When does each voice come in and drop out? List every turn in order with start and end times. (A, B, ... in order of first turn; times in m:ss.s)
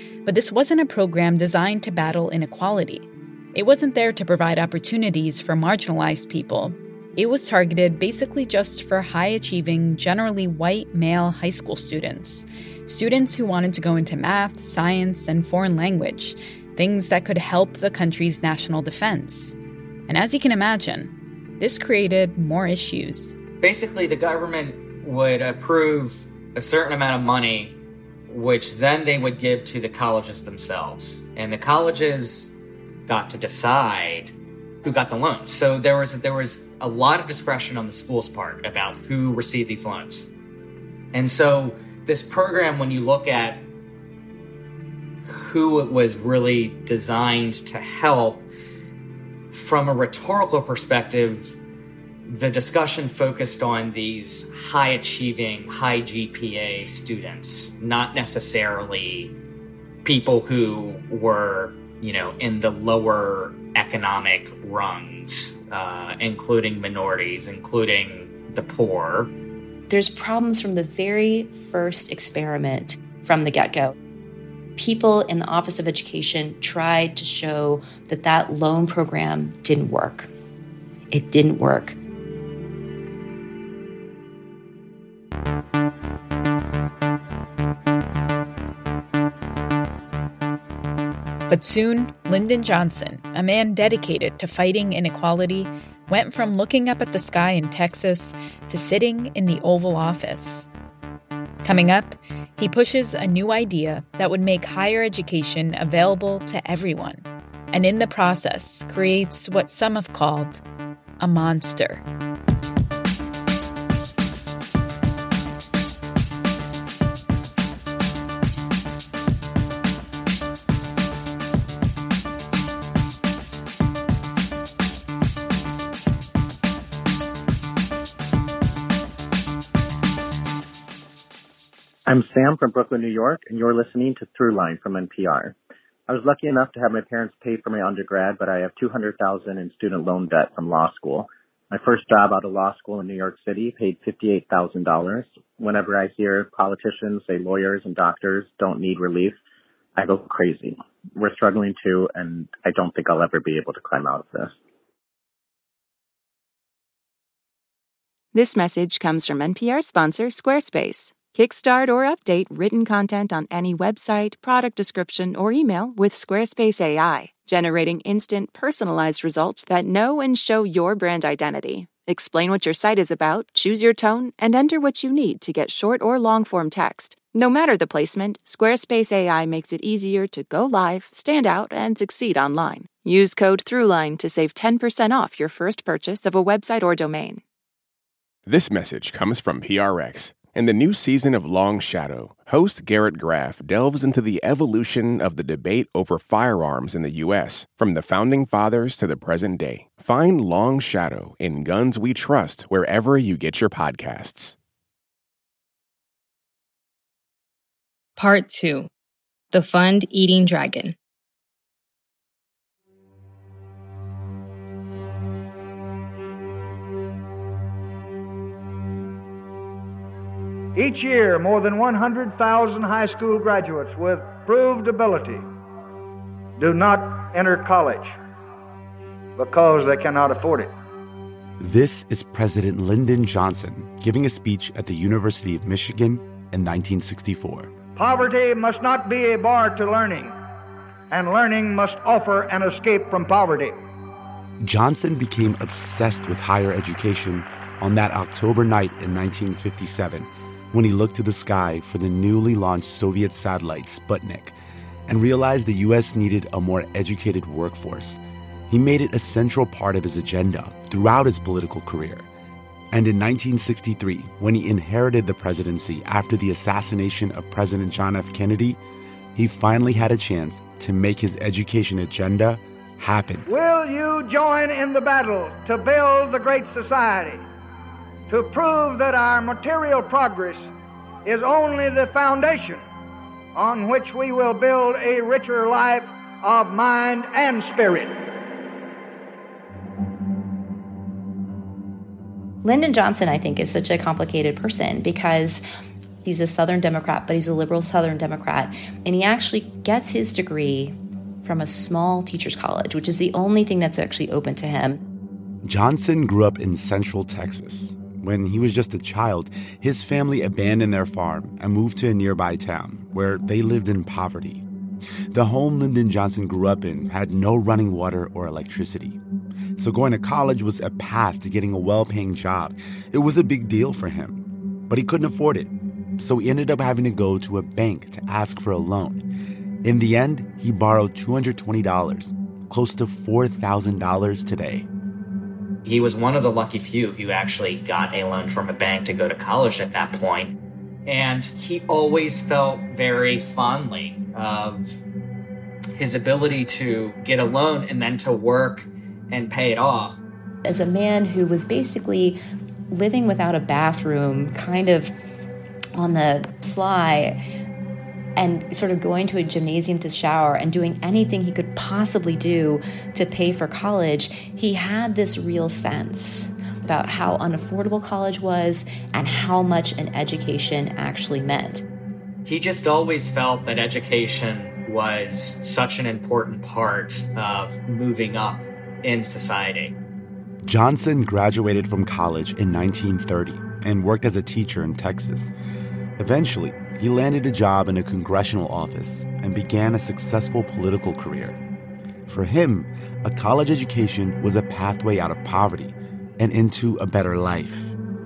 0:00.2-0:19.6 A
0:20.1-0:23.4 A
0:23.6-0:27.8 B
0:28.3-0:32.5 B
0:33.1-0:40.3 B
0:41.1-0:43.6 B
0:45.2-0:48.5 B
0:49.5-0:51.6 B
0:52.3-0:59.3 B
1:00.0-1:09.3 B
1:09.9-1:14.0 C
1:14.8-1:20.3 C
1:21.1-1:22.0 C
1:31.5-1:40.7 A
1:41.6-1:50.6 A
1:51.2-1:52.0 A
2:12.1-2:15.6 D
2:16.1-2:29.4 D
2:30.0-2:34.6 D
2:38.3-3:07.4 E
3:08.5-3:24.6 F
3:28.2-3:28.9 G
3:29.5-3:31.0 G
3:40.8-3:45.4 H
3:46.6-3:48.1 H
3:49.4-3:50.7 H
3:51.6-3:57.7 I
3:58.0-4:00.4 H
4:01.1-4:03.8 H
4:04.6-4:14.6 I
4:15.1-4:22.3 I
4:22.9-4:28.8 I
4:29.4-4:33.5 I
4:33.5-4:37.4 H
4:38.3-4:40.7 H
4:41.2-4:42.8 H
4:43.6-4:48.2 H
4:52.6-4:55.6 C
4:56.2-5:05.0 C
5:05.6-5:14.6 I
5:15.3-5:19.2 I
5:19.8-5:29.2 I
5:29.8-5:34.9 I
5:35.8-5:40.5 B
5:41.1-5:45.0 B
5:46.0-5:50.2 B
5:50.6-5:52.4 C
5:52.9-5:55.1 C
5:56.0-5:57.4 C
5:58.4-6:11.8 C
6:12.5-6:19.9 B
6:20.6-6:25.5 I
6:26.2-6:31.6 I
6:32.3-6:37.9 I